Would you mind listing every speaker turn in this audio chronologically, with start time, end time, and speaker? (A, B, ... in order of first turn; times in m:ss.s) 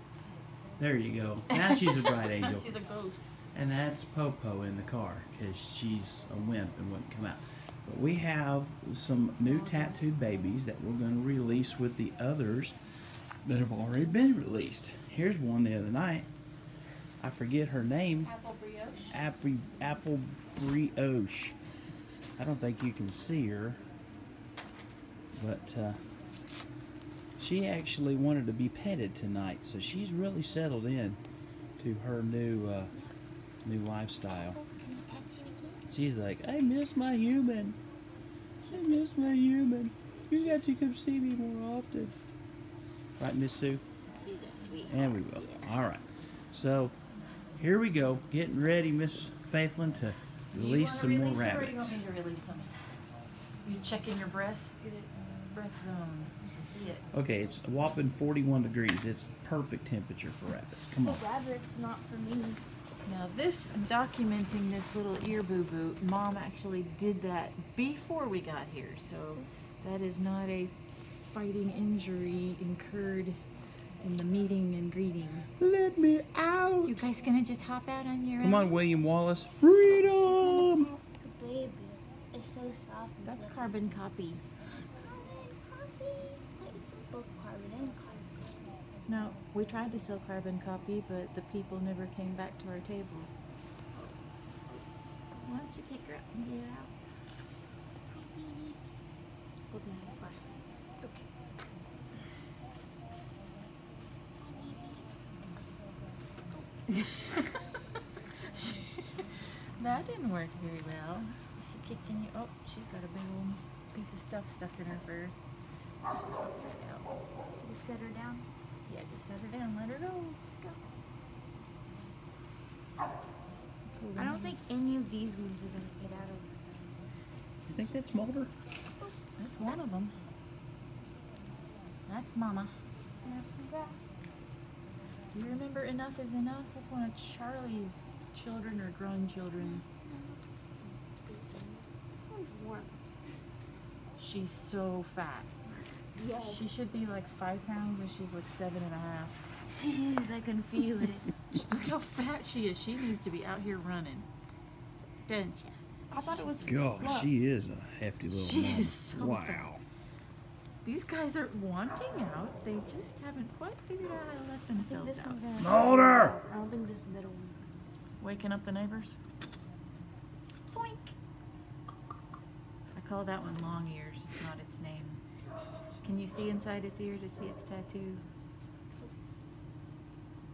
0:00.8-0:02.8 A
0:01.5-0:03.3 B
0:03.5-0:12.8 A
0:09.6-0:10.1 B
0:13.4-0:16.3 A
0:17.2-0:18.3 A
0:18.2-0:19.2 B
0:19.1-0:21.6 A
0:22.4-0:23.8 A
0:25.4-0:26.0 A
0:27.4-0:31.2 A
0:31.8-0:32.9 A
0:33.6-0:34.6 A
0:34.3-0:35.8 C
0:35.9-0:37.8 A
0:38.6-0:42.1 A
0:38.6-0:39.2 C
0:40.3-0:40.9 C
0:43.2-0:43.8 A
0:44.2-0:45.7 C
0:44.9-0:47.0 A
0:47.6-0:52.0 A
0:50.5-0:52.8 B
0:53.6-0:57.1 B
0:57.1-1:01.2 A
1:00.9-1:02.6 C
1:03.0-1:13.4 B
1:14.0-1:15.5 B
1:15.6-1:17.0 A
1:16.8-1:18.8 B
1:18.4-1:20.9 A
1:20.4-1:23.8 C
1:23.2-1:24.4 B
1:24.8-1:28.8 C
1:29.1-1:33.3 B
1:35.4-1:36.9 B
1:38.1-1:38.8 C
1:39.7-1:41.3 C
1:44.4-1:45.1 C
1:46.9-1:47.7 B
1:48.5-1:55.4 B
1:56.1-1:57.1 B
1:57.6-1:58.5 C
1:58.9-2:00.4 B
2:04.0-2:04.6 B
2:04.2-2:06.7 C
2:07.7-2:08.5 A
2:09.4-2:10.2 B
2:12.1-2:12.7 B
2:13.2-2:14.2 C
2:15.3-2:19.8 B
2:19.6-2:20.4 C
2:21.1-2:23.0 C
2:24.2-2:25.5 B
2:26.2-2:26.8 C
2:26.4-2:29.5 B
2:29.7-2:31.2 C
2:30.8-2:34.3 B
2:35.3-2:37.3 B
2:36.1-2:37.3 C
2:36.5-2:39.8 A
2:38.3-2:39.7 B
2:40.8-2:45.5 B
2:44.8-2:47.7 C
2:45.6-2:46.4 A
2:48.2-2:49.2 B
2:50.7-2:51.1 B
2:53.0-2:55.2 B
2:56.0-2:58.2 B